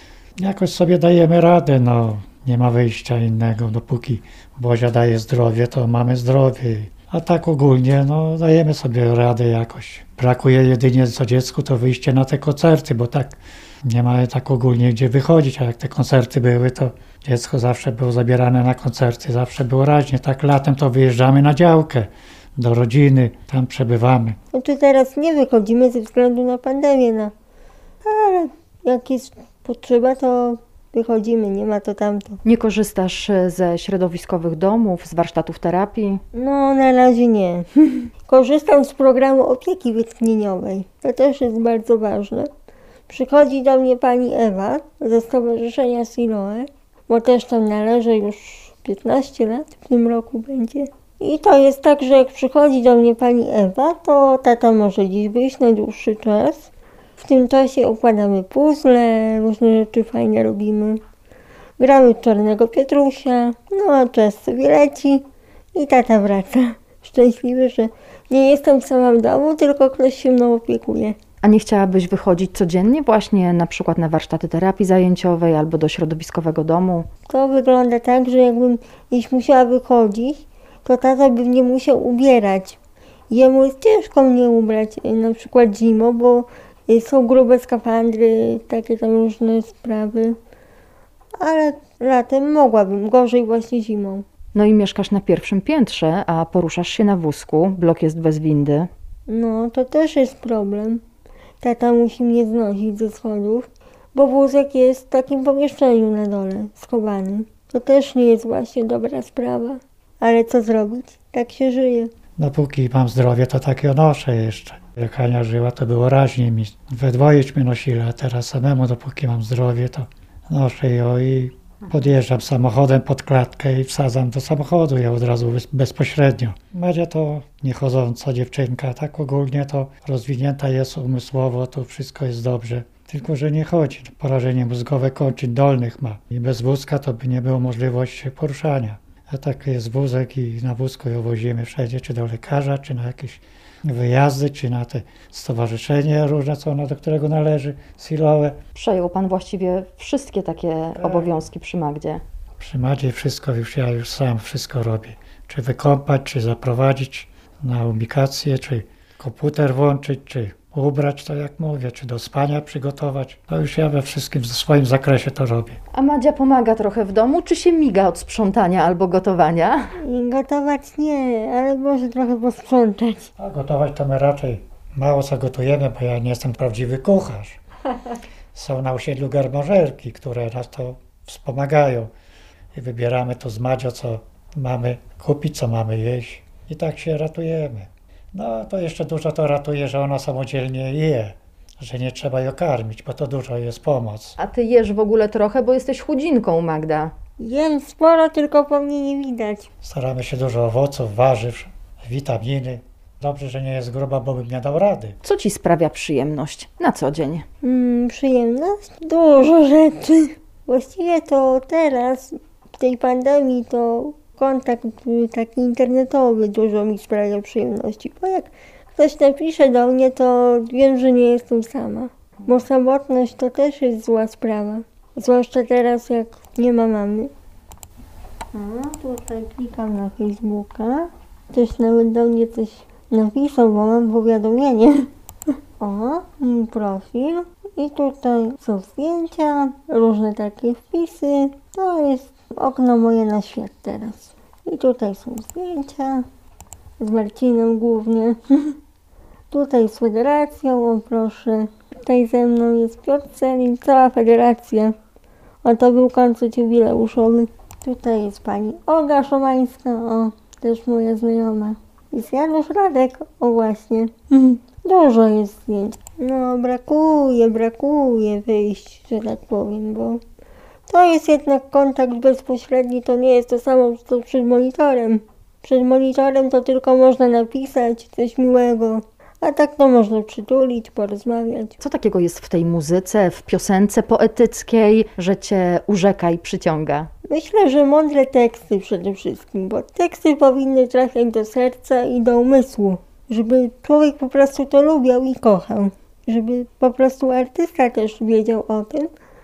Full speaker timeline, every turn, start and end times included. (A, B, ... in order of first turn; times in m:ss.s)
0:00.4-0:24.4 A
0:24.5-0:27.3 B
0:28.0-0:32.4 B
0:32.4-0:36.2 C
0:36.3-0:37.7 B
0:38.2-0:42.5 B
0:43.1-1:01.0 B
1:01.8-1:11.2 B
1:11.4-1:17.1 C
1:17.3-1:22.8 B
1:23.3-1:30.4 B
1:31.4-1:34.2 B
1:34.5-1:38.9 C
1:39.3-1:41.0 B
1:41.6-1:52.1 B
1:52.4-2:28.6 A
2:28.7-2:32.2 C
2:31.0-2:31.3 A
2:32.6-2:45.8 A
2:45.9-2:49.9 C
2:50.0-2:53.3 B
2:53.4-2:57.6 A
2:58.5-3:02.1 A
3:02.7-3:14.4 A
3:14.4-3:17.1 C
3:17.4-3:19.7 B
3:19.8-3:25.2 A
3:25.2-3:27.4 C
3:27.6-3:47.3 B
3:48.5-3:55.1 B
3:55.8-4:06.3 B
4:07.0-4:08.8 B
4:09.5-4:14.9 B
4:15.6-4:30.2 B
4:30.9-4:41.8 B
4:41.8-4:47.1 C
4:47.2-4:59.1 B